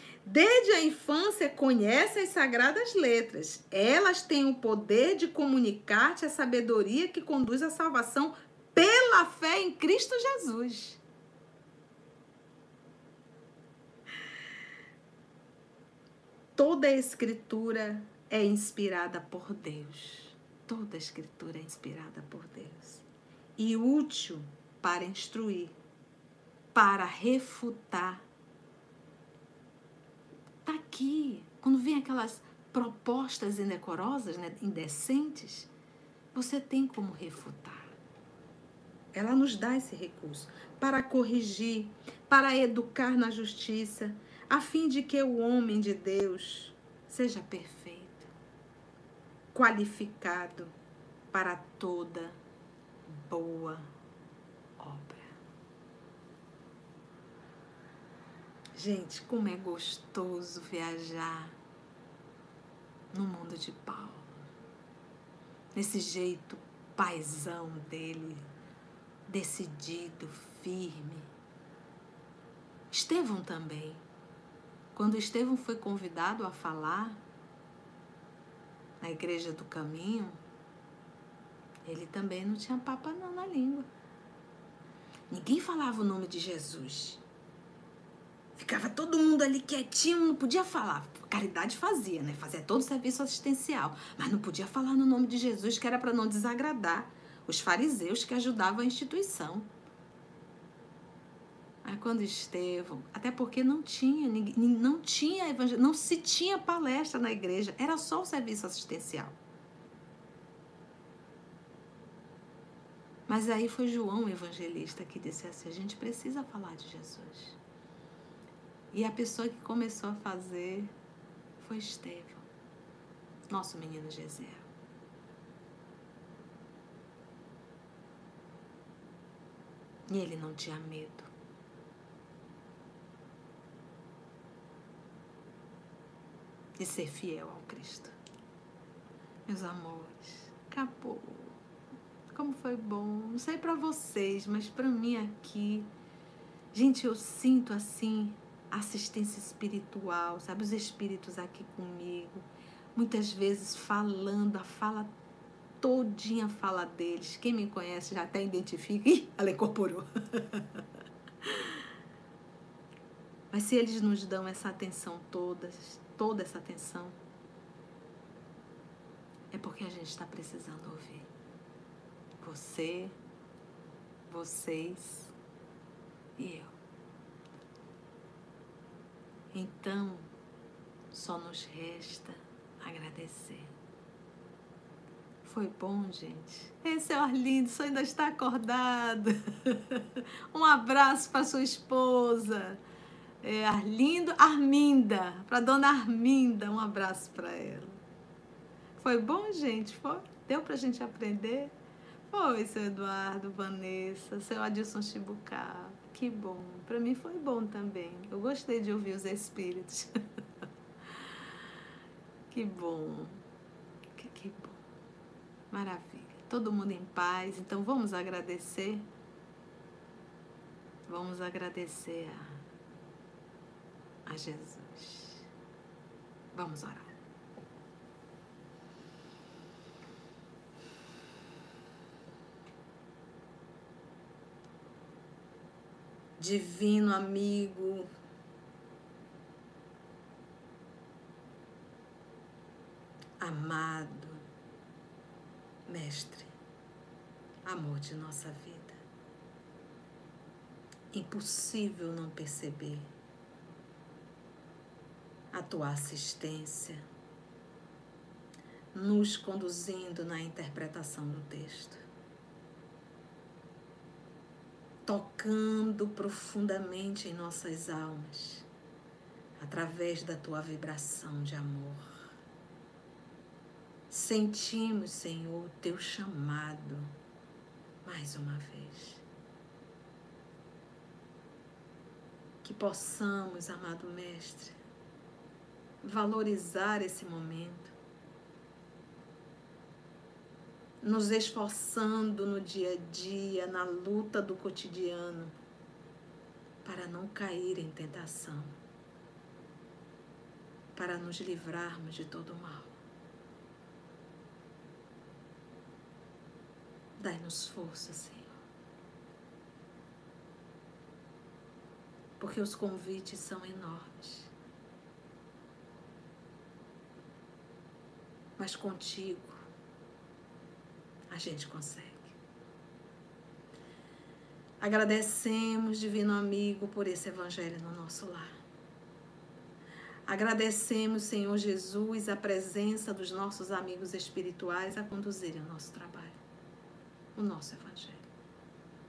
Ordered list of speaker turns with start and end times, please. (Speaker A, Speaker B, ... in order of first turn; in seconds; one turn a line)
Speaker A: 0.2-11.0
Speaker A: 16.6-23.1
Speaker A: 23.6-25.7
Speaker A: 26.7-28.2
Speaker A: 30.6-35.7
Speaker A: 36.3-37.9
Speaker A: 39.1-48.3
Speaker A: 49.5-50.7
Speaker A: 51.3-52.4
Speaker A: 53.1-53.9
Speaker A: 54.8-55.4
Speaker A: 58.8-61.6
Speaker A: 63.1-64.5
Speaker A: 65.7-68.5
Speaker A: 69.3-71.3
Speaker A: 72.9-74.0
Speaker A: 74.9-77.2
Speaker A: 79.0-80.4
Speaker A: 81.9-83.9
Speaker A: 85.3-87.2
Speaker A: 88.6-99.7
Speaker A: 101.8-109.4
Speaker A: 113.3-117.6
Speaker A: 118.9-120.9
Speaker A: 121.6-122.5
Speaker A: 123.5-124.7
Speaker A: 130.1-131.3
Speaker A: 136.8-138.2
Speaker A: 139.5-141.6
Speaker A: 142.3-145.9
Speaker A: 146.7-155.1
Speaker A: 155.8-160.8
Speaker A: 161.4-161.7
Speaker A: 163.5-167.2
Speaker A: 169.5-171.3
Speaker A: 172.4-173.2
Speaker A: 174.3-175.3
Speaker A: 176.4-176.7
Speaker A: 179.5-180.3
Speaker A: 181.1-183.7
Speaker A: 185.4-192.8
Speaker A: 193.4-198.0
Speaker A: 199.0-201.7
Speaker A: 202.3-210.1
Speaker A: 212.5-213.4
Speaker A: 214.2-214.8
Speaker A: 215.7-219.1
Speaker A: 221.1-222.6
Speaker A: 224.3-225.5
Speaker A: 226.5-227.1
Speaker A: 236.4-238.1
Speaker A: 243.4-244.4
Speaker A: 245.9-246.5
Speaker A: 247.7-249.0
Speaker A: 251.1-253.1
Speaker A: 255.5-257.1
Speaker A: 258.9-262.1
Speaker A: 265.1-268.7
Speaker A: 269.6-272.2
Speaker A: 274.1-277.1
Speaker A: 278.0-279.2
Speaker A: 282.6-284.8
Speaker A: 286.0-287.9
Speaker A: 291.0-295.6
Speaker A: 296.8-298.8
Speaker A: 300.9-303.0
Speaker A: 307.2-308.6
Speaker A: 312.4-314.5
Speaker A: 318.6-319.7
Speaker A: 321.3-322.4
Speaker A: 324.8-328.6
Speaker A: 330.3-336.4
Speaker A: 337.4-338.3